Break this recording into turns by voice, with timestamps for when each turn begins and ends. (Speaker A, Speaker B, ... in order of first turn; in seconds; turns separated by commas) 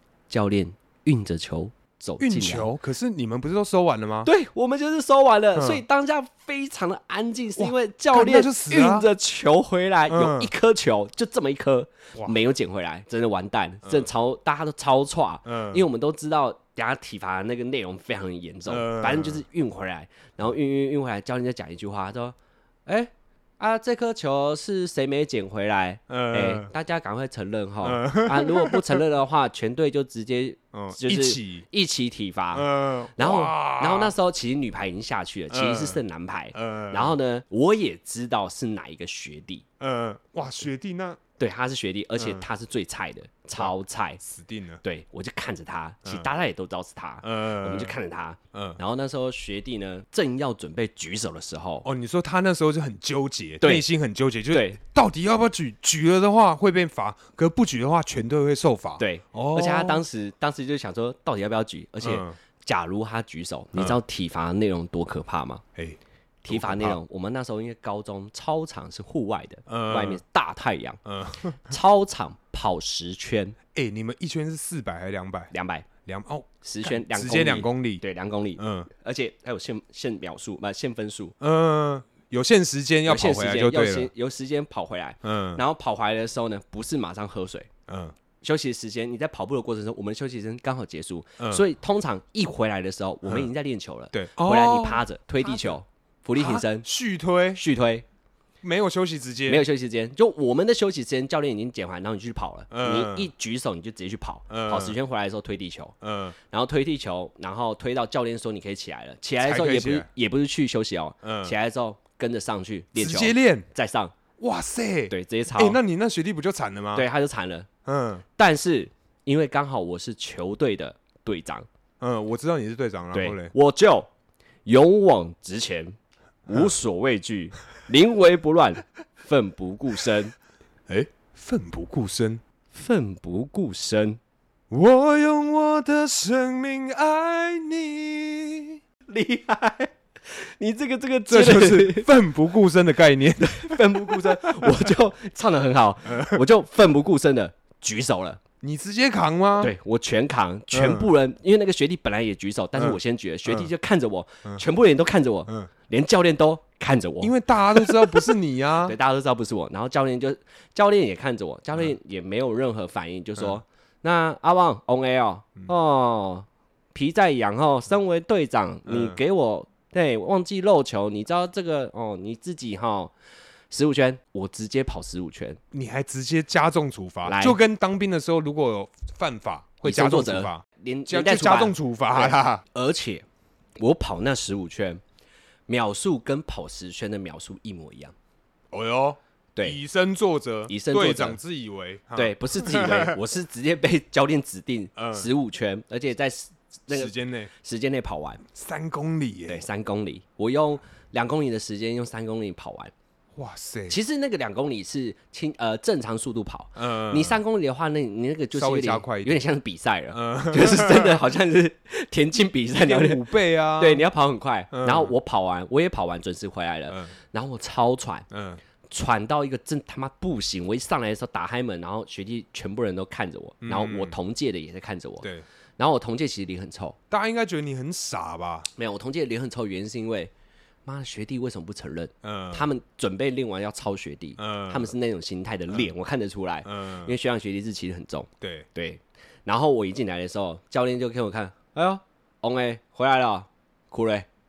Speaker A: 0.3-2.7, Speaker B: 2.2-4.3, Speaker A: 4.2-39.6, Speaker B: 5.5-5.8, Speaker B: 7.6-9.1, Speaker B: 10.1-10.5, Speaker B: 15.4-15.8, Speaker B: 18.7-19.4, Speaker B: 26.1-26.7, Speaker B: 27.8-29.0, Speaker B: 30.7-31.7, Speaker B: 32.5-34.1, Speaker B: 35.5-36.0, Speaker B: 36.5-37.1, Speaker B: 39.8-41.2, Speaker A: 41.4-44.2, Speaker B: 42.2-42.5, Speaker B: 43.6-44.8, Speaker A: 44.8-51.9, Speaker B: 46.0-46.3, Speaker B: 47.2-48.0, Speaker B: 48.5-48.8, Speaker B: 51.8-60.0, Speaker A: 54.5-54.8, Speaker A: 59.0-65.6, Speaker B: 62.0-62.4, Speaker B: 65.8-67.0, Speaker A: 66.4-71.0, Speaker B: 69.7-70.2, Speaker B: 71.0-71.8, Speaker A: 71.7-73.6, Speaker B: 73.7-75.5, Speaker A: 75.5-75.9, Speaker B: 76.0-78.0, Speaker A: 76.6-81.3, Speaker B: 78.6-78.9, Speaker B: 81.4-84.1, Speaker A: 83.1-87.7, Speaker B: 85.2-85.6, Speaker B: 87.9-88.2, Speaker A: 88.4-96.9, Speaker B: 94.1-95.8, Speaker B: 96.4-97.6, Speaker A: 97.5-98.0, Speaker B: 98.6-99.7, Speaker A: 99.5-114.1, Speaker B: 102.7-103.3, Speaker B: 104.5-105.0, Speaker B: 106.0-106.4, Speaker B: 109.4-110.1, Speaker B: 111.2-111.5, Speaker B: 113.0-113.7, Speaker B: 114.4-117.1, Speaker A: 115.1-115.8, Speaker A: 117.0-117.7, Speaker B: 117.9-118.2, Speaker A: 118.3-121.7, Speaker B: 122.0-123.5, Speaker A: 123.1-124.1, Speaker A: 124.7-126.0, Speaker A: 126.5-130.3, Speaker B: 130.9-132.4, Speaker A: 132.7-134.2, Speaker B: 134.7-138.8, Speaker A: 139.1-142.1, Speaker B: 141.3-144.9, Speaker A: 143.4-148.4, Speaker B: 146.1-146.4, Speaker B: 148.6-149.7, Speaker A: 149.6-173.1, Speaker B: 150.7-151.1, Speaker B: 152.8-153.7, Speaker B: 157.2-159.0, Speaker B: 168.9-169.2, Speaker A: 173.7-175.6, Speaker B: 175.7-182.6, Speaker A: 177.3-177.6, Speaker A: 179.8-183.2, Speaker A: 183.8-185.0, Speaker A: 185.7-188.1, Speaker B: 188.7-193.2, Speaker A: 190.7-191.4, Speaker A: 192.2-198.4, Speaker B: 195.0-195.3, Speaker B: 196.9-197.5, Speaker B: 198.5-199.7, Speaker A: 199.5-202.9, Speaker B: 203.4-204.0, Speaker A: 203.9-218.3, Speaker B: 206.8-207.4, Speaker B: 208.5-209.4, Speaker B: 210.1-211.2, Speaker B: 212.8-214.0, Speaker B: 214.7-215.1, Speaker B: 216.9-217.1, Speaker B: 218.3-218.6, Speaker A: 218.9-227.0, Speaker B: 223.6-224.2, Speaker B: 227.1-228.7, Speaker A: 228.8-230.3, Speaker A: 230.8-244.3, Speaker B: 232.2-232.7, Speaker B: 234.4-234.9, Speaker B: 236.7-237.1, Speaker B: 238.4-238.7